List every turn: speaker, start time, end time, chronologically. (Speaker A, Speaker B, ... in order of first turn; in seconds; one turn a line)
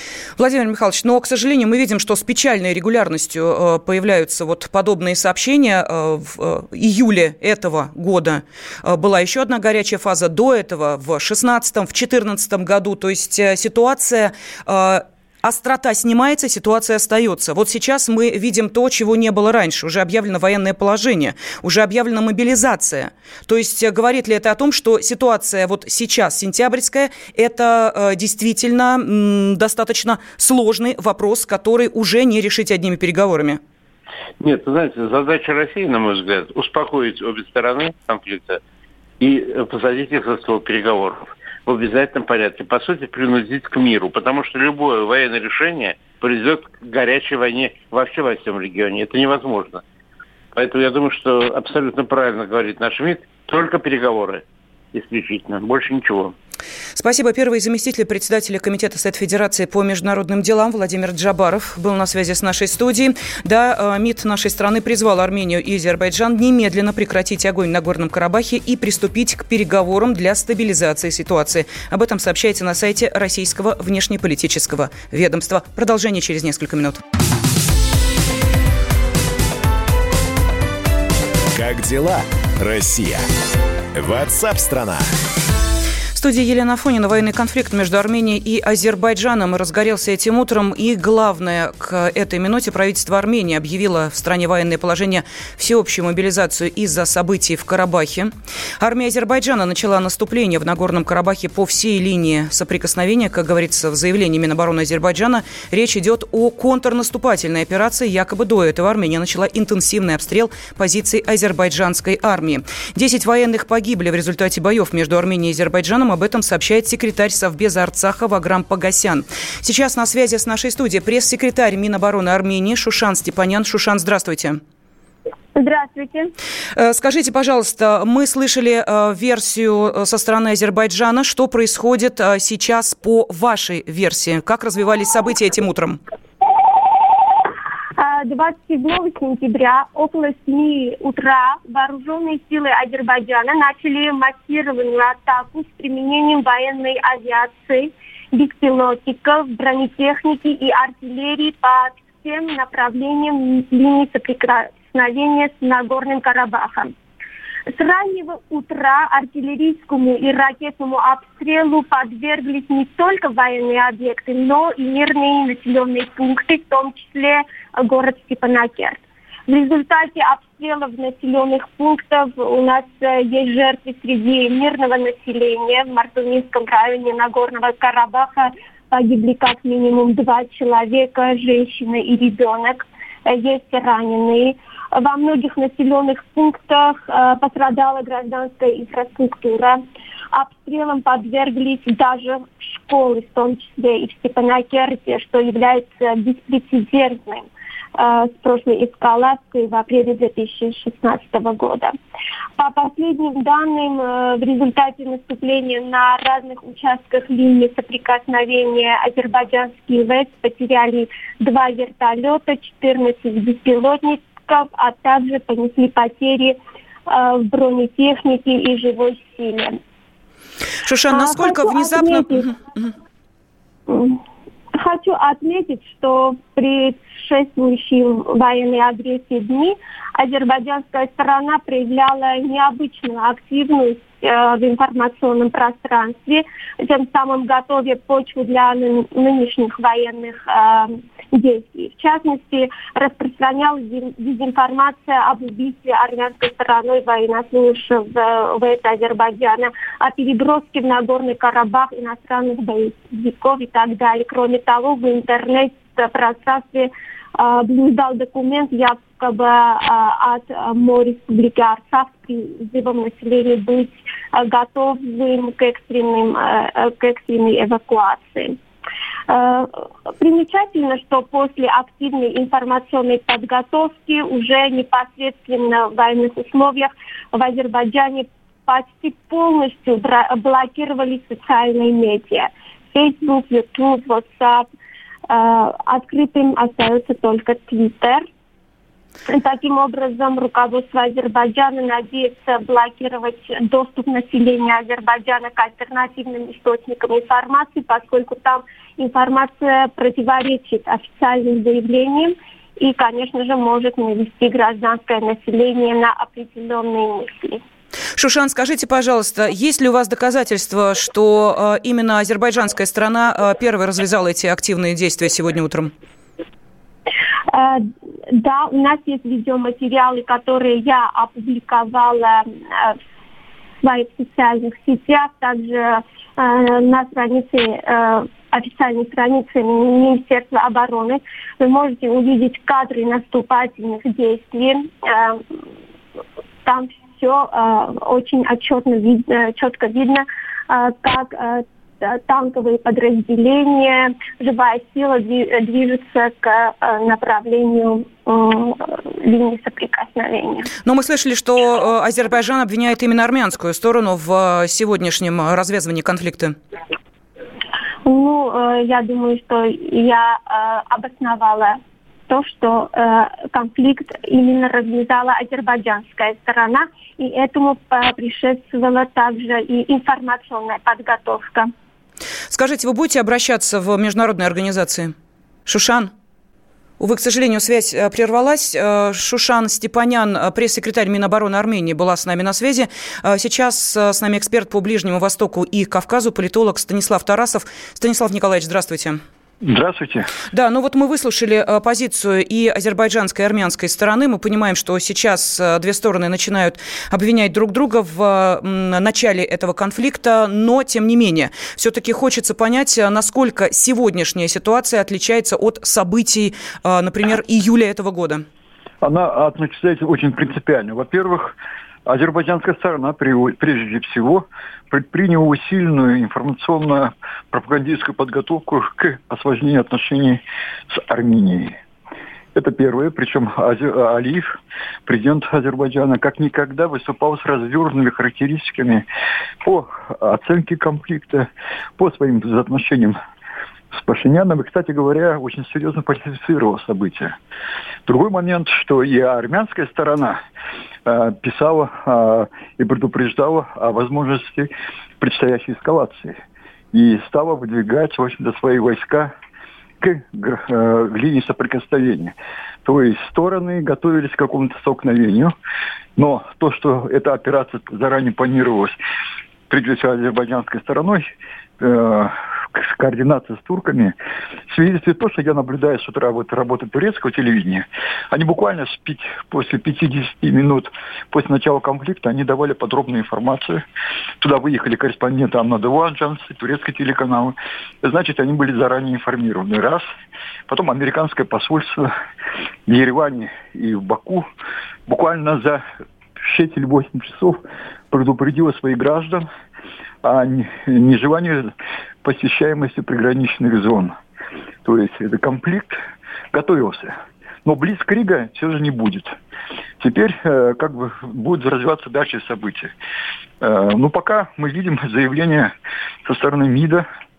Speaker A: 0.4-33.6
Speaker B: 34.4-38.6
Speaker B: 39.2-49.8
Speaker B: 50.5-56.4
Speaker A: 56.9-77.0
Speaker C: 81.5-83.2
Speaker C: 83.9-85.1
Speaker A: 86.1-124.6
Speaker D: 125.5-126.3
Speaker A: 126.8-136.0
Speaker D: 138.0-156.9
Speaker D: 157.7-189.8
Speaker D: 190.3-201.9
Speaker D: 202.6-219.8
Speaker A: 220.8-222.9
Speaker D: 221.1-222.5
Speaker D: 223.9-224.2
Speaker D: 224.7-268.6
Speaker D: 269.3-284.6
Speaker D: 285.3-288.3
Speaker D: 289.3-307.6
Speaker A: 308.1-315.9
Speaker D: 317.5-323.0
Speaker D: 323.8-335.4
Speaker D: 336.6-350.7
Speaker A: 350.9-356.6
Speaker D: 358.1-371.7
Speaker A: 372.5-375.1
Speaker A: 375.6-376.1
Speaker A: 377.0-389.2
Speaker E: 389.6-390.3
Speaker A: 390.5-408.4
Speaker E: 409.0-411.5
Speaker E: 412.1-421.8
Speaker E: 422.5-424.5
Speaker E: 425.1-429.0
Speaker E: 429.6-433.2
Speaker E: 433.9-437.4
Speaker E: 438.1-440.4
Speaker E: 441.1-446.4
Speaker E: 446.9-449.3
Speaker E: 450.0-455.5
Speaker E: 456.2-458.9
Speaker E: 459.7-461.3
Speaker E: 461.8-464.1
Speaker E: 464.7-473.8
Speaker E: 474.4-480.1
Speaker E: 480.7-482.1
Speaker E: 482.9-484.5
Speaker E: 485.1-485.8
Speaker E: 486.4-487.6
Speaker E: 488.1-489.5
Speaker E: 490.2-491.7
Speaker E: 492.2-494.1
Speaker E: 494.9-496.0
Speaker E: 496.5-499.4
Speaker E: 500.0-502.9
Speaker E: 503.6-505.7
Speaker E: 506.2-507.1